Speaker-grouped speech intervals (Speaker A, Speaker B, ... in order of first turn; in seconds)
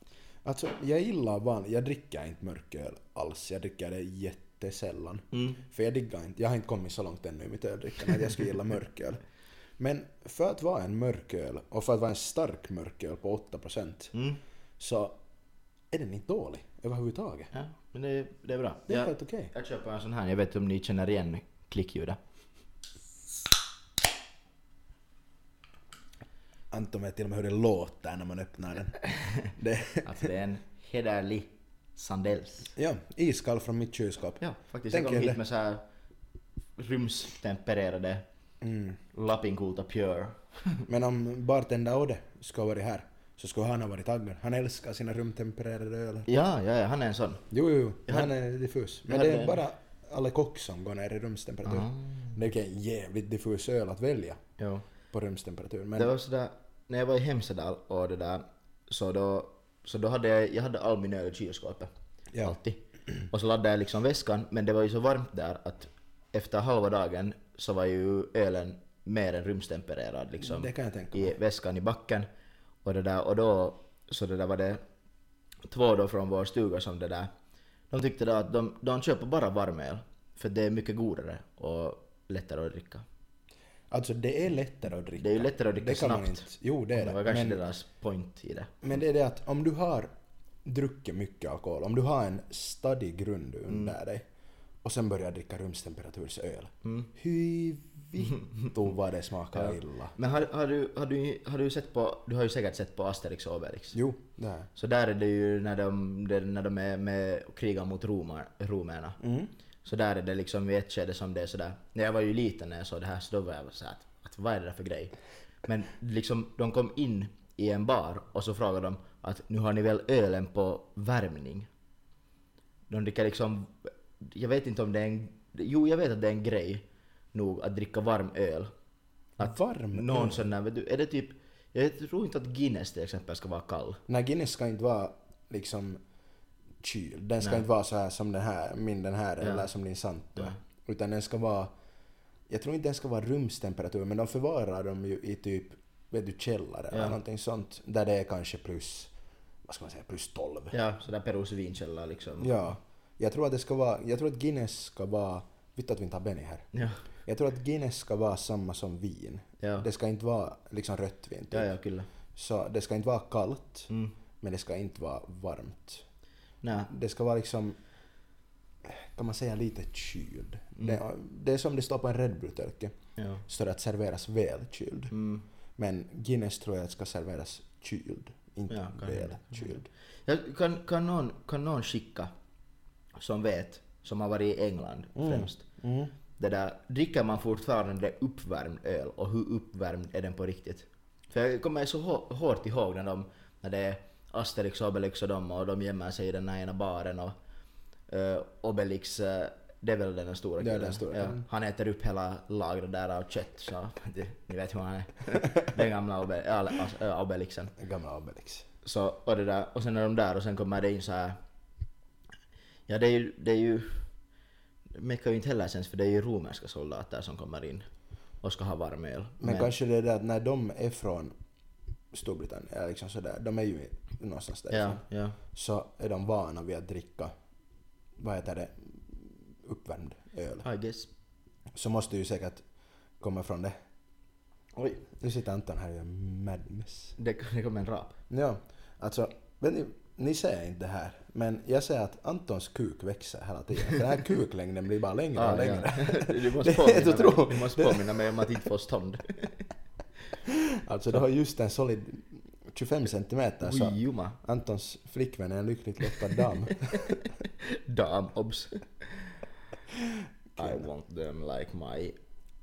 Speaker A: 0.5-9.2, 9.8-14.1, 14.8-15.2, 15.9-17.5, 18.9-19.5, 26.7-30.3, 32.8-35.4, 38.6-39.0, 40.9-46.3, 47.5-54.4, 55.1-56.1, 70.4-71.3, 83.9-87.6, 88.8-90.1, 90.7-94.3, 94.8-100.1, 103.9-104.7, 109.2-109.5, 129.4-130.4, 134.1-136.0, 136.8-141.7, 142.5-149.1, 149.7-150.8, 152.4-156.7, 157.2-161.7, 162.3-163.9, 164.4-166.0, 166.9-167.8, 168.8-172.9, 173.5-175.1, 175.8-179.9, 185.2-186.1, 200.6-201.5, 207.8-208.7, 219.4-221.3, 222.1-227.3, 228.2-230.7, 231.7-232.6, 233.2-233.8, 235.1-237.2, 238.3-248.5, 250.5-257.2, 260.6-260.9
Speaker B: 5.3-5.6, 14.1-14.4, 17.5-22.2, 29.1-29.5, 30.0-32.7, 34.4-35.8, 36.8-38.2, 39.1-40.9, 46.3-47.4, 48.1-48.3, 49.1-49.6, 51.6-52.4, 54.6-54.9, 56.0-72.3, 72.8-74.8, 75.7-77.3, 77.9-83.0, 85.2-88.7, 93.7-94.0, 96.8-97.1, 99.5-104.0, 104.8-109.2, 109.8-121.7, 122.9-128.7, 129.4-134.0, 139.4-139.7, 146.9-147.2, 150.7-152.6, 156.7-157.0, 159.6-159.9, 161.5-162.1, 166.6-166.9, 173.2-173.4, 175.1-175.4, 178.7-182.3, 183.2-185.6, 186.3-197.3, 198.1-207.7, 208.8-211.4, 212.9-214.1, 214.9-217.9, 218.4-219.7, 224.7-225.4, 230.6-231.1, 234.8-235.1, 237.2-238.2, 245.3-249.7, 253.6-254.4, 256.8-259.4, 260.6-262.2